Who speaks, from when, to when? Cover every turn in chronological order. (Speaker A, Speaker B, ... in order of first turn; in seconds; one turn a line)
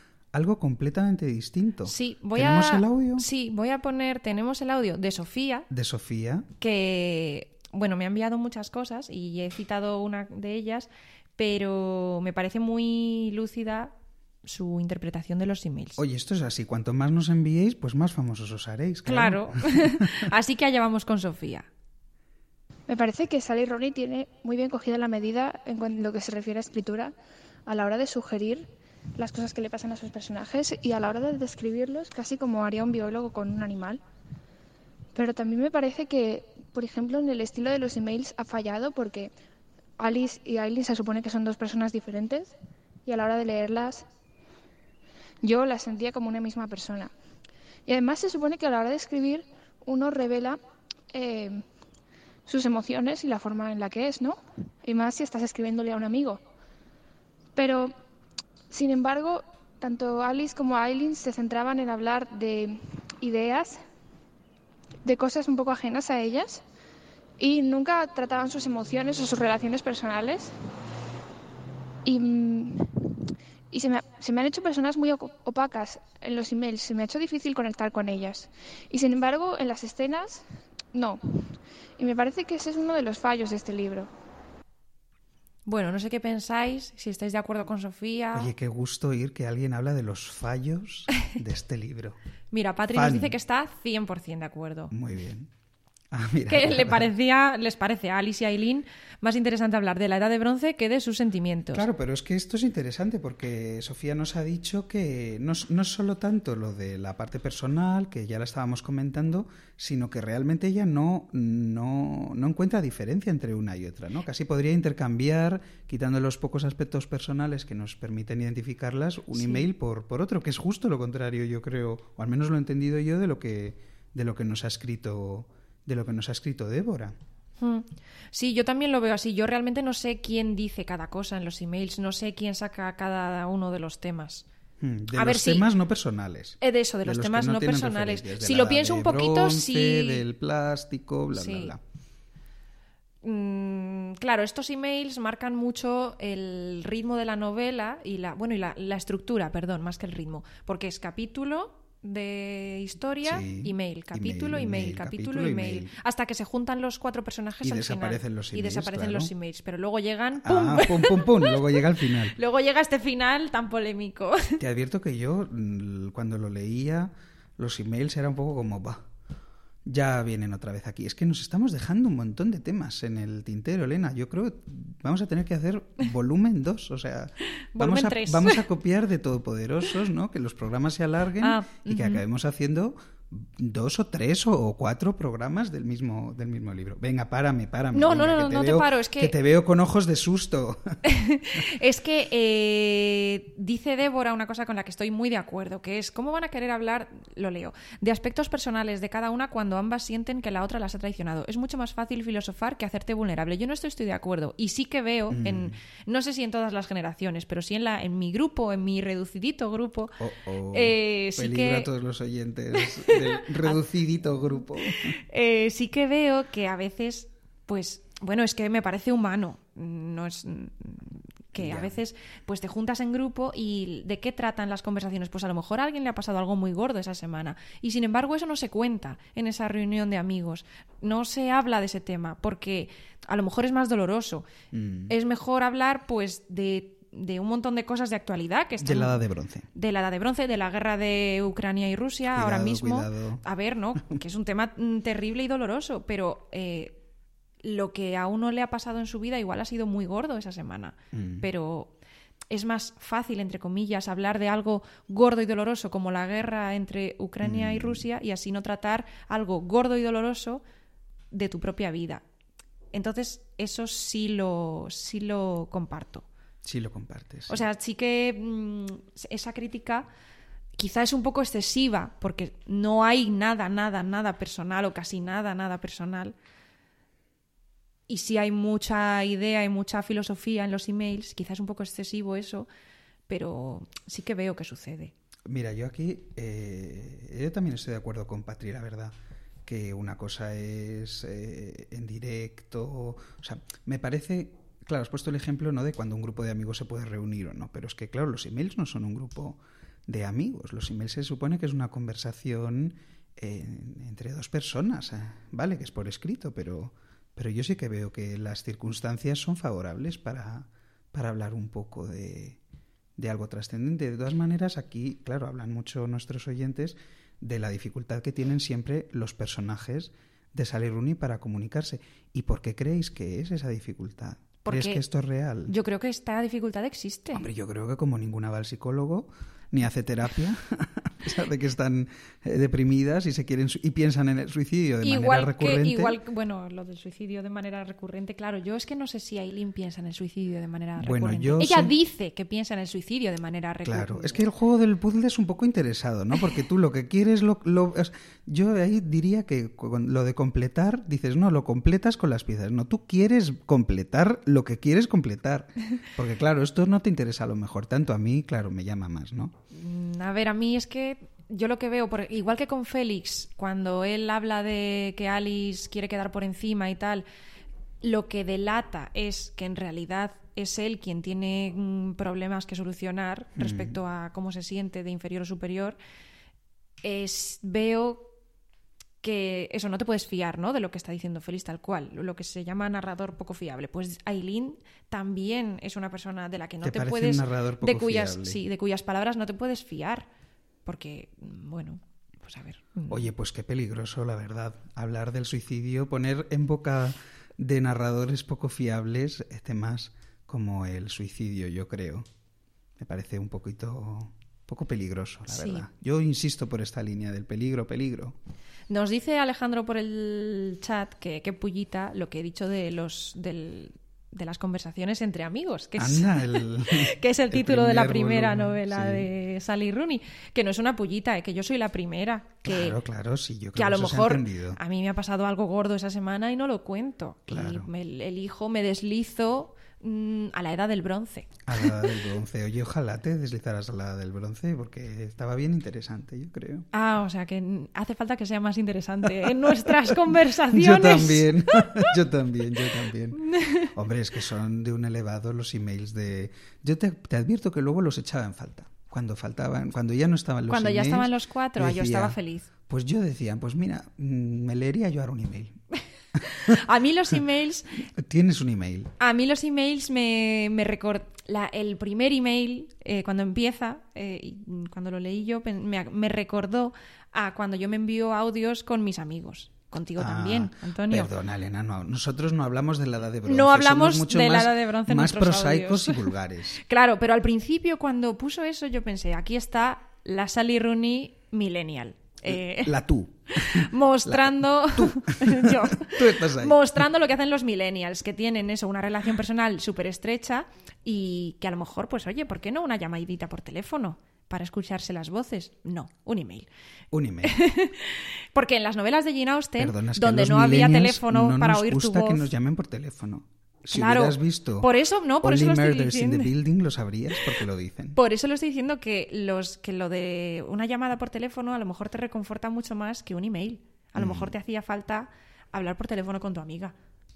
Speaker A: 0.3-3.3
Speaker B: 1.9-5.7
Speaker A: 5.7-6.5
Speaker B: 6.6-13.9
Speaker B: 14.4-16.0
Speaker A: 16.0-20.3
Speaker B: 19.1-21.7
Speaker C: 22.9-27.1
Speaker C: 27.7-34.0
Speaker C: 35.1-39.3
Speaker C: 40.0-42.5
Speaker C: 43.1-44.0
Speaker C: 45.4-47.1
Speaker C: 47.9-50.6
Speaker C: 51.1-51.6
Speaker C: 52.5-56.4
Speaker C: 57.6-57.9
Speaker C: 58.7-63.8
Speaker C: 65.0-66.6
Speaker C: 67.4-70.5
Speaker C: 72.0-72.8
Speaker C: 73.7-81.2
Speaker C: 82.0-84.1
Speaker B: 85.7-88.5
Speaker A: 88.3-92.2
Speaker B: 92.5-94.9
Speaker A: 92.9-93.4
Speaker A: 94.9-95.5
Speaker A: 96.1-97.1
Speaker B: 96.5-101.9
Speaker A: 101.7-127.2
Speaker B: 119.3-119.7
Speaker B: 127.6-134.5
Speaker A: 134.8-141.8
Speaker B: 135.1-135.7
Speaker B: 136.6-140.2
Speaker B: 141.3-141.7
Speaker B: 143.2-164.6
Speaker A: 153.2-155.9
Speaker A: 157.6-159.3
Speaker A: 160.4-162.4
Speaker A: 164.6-169.0
Speaker A: 169.9-191.0
Speaker B: 177.4-178.7
Speaker B: 181.4-182.2
Speaker B: 187.9-189.3
Speaker B: 191.1-210.2
Speaker A: 205.3-205.8
Speaker A: 210.2-215.2
Speaker B: 210.7-211.9
Speaker B: 212.8-213.8
Speaker B: 214.9-234.5
Speaker A: 221.5-222.0
Speaker A: 234.7-235.1
Speaker B: 235.1-247.0
Speaker A: 238.8-239.7
Speaker A: 242.3-243.4
Speaker B: 247.6-251.9
Speaker A: 251.1-251.5
Speaker B: 252.5-260.6
Speaker A: 257.4-258.1
Speaker B: 261.3-262.2
Speaker B: 262.9-266.3
Speaker A: 266.6-267.7
Speaker B: 267.5-270.1
Speaker B: 270.8-276.4
Speaker B: 278.1-282.7
Speaker B: 283.3-285.1
Speaker A: 285.5-289.1
Speaker A: 289.7-312.6
Speaker A: 313.2-325.7
Speaker B: 324.6-325.0
Speaker B: 325.7-327.5
Speaker A: 327.3-336.2
Speaker B: 335.0-344.4
Speaker A: 341.0-341.9
Speaker A: 343.9-359.6
Speaker B: 359.7-367.3
Speaker B: 368.0-376.0
Speaker A: 373.6-374.0
Speaker B: 377.0-378.3
Speaker B: 379.2-390.3
Speaker A: 386.8-388.6
Speaker B: 390.9-393.3
Speaker A: 393.1-402.3
Speaker A: 403.0-408.4
Speaker B: 405.5-405.9
Speaker B: 408.9-423.0
Speaker A: 416.0-419.3
Speaker A: 422.6-424.8
Speaker B: 423.8-432.0
Speaker A: 427.5-427.9
Speaker A: 431.7-436.9
Speaker B: 436.9-442.1
Speaker A: 439.4-452.4
Speaker B: 442.9-443.9
Speaker B: 450.7-452.7
Speaker A: 452.9-455.8
Speaker A: 456.4-456.8
Speaker B: 456.4-458.0
Speaker A: 458.2-459.1
Speaker B: 459.2-471.3
Speaker A: 470.2-476.8
Speaker B: 473.5-483.0
Speaker A: 482.5-487.0
Speaker B: 483.6-496.7
Speaker A: 497.1-497.6
Speaker B: 497.4-502.5
Speaker A: 499.8-504.9
Speaker B: 503.9-506.5
Speaker A: 505.4-508.2
Speaker B: 508.1-516.9
Speaker A: 514.2-514.5